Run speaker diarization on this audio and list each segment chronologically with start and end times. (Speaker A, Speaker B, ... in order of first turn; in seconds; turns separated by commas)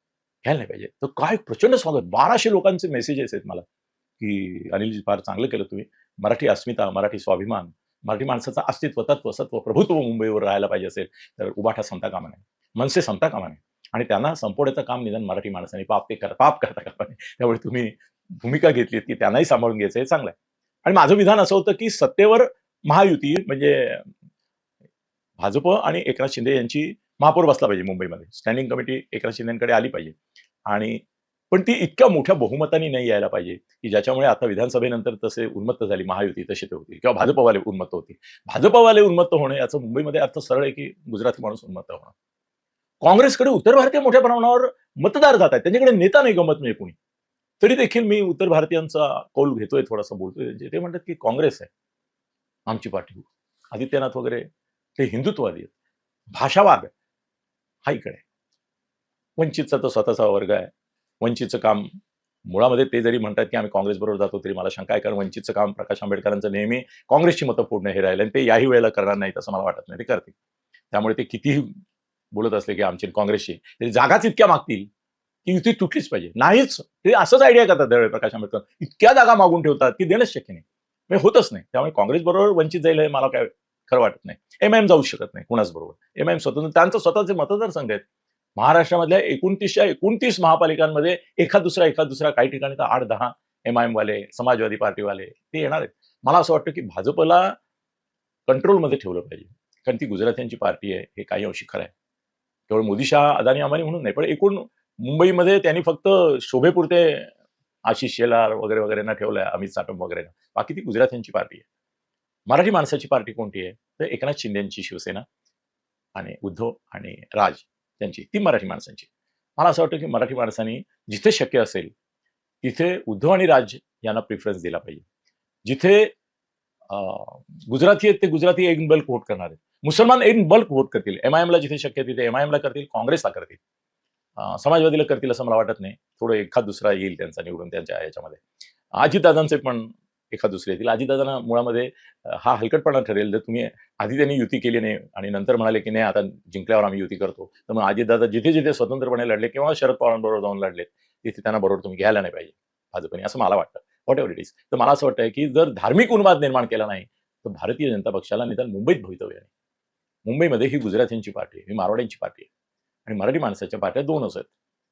Speaker A: 0.5-3.6, Speaker A: 4.2-24.1, Speaker A: 25.4-42.1, Speaker A: 43.0-47.0, Speaker A: 47.6-51.7, Speaker A: 52.7-55.7, Speaker A: 56.3-56.9, Speaker A: 57.9-58.2, Speaker A: 59.4-61.9, Speaker A: 62.5-70.3, Speaker A: 70.9-71.7, Speaker A: 72.3-74.9, Speaker A: 75.5-88.0, Speaker A: 88.6-97.5, Speaker A: 98.5-101.9, Speaker A: 102.7-107.3, Speaker A: 107.9-111.7, Speaker A: 112.5-115.2, Speaker A: 116.2-121.9, Speaker A: 122.6-125.0, Speaker A: 125.7-126.1, Speaker A: 126.9-133.6, Speaker A: 134.4-138.4, Speaker A: 139.0-159.5, Speaker A: 160.2-162.5, Speaker A: 163.1-164.5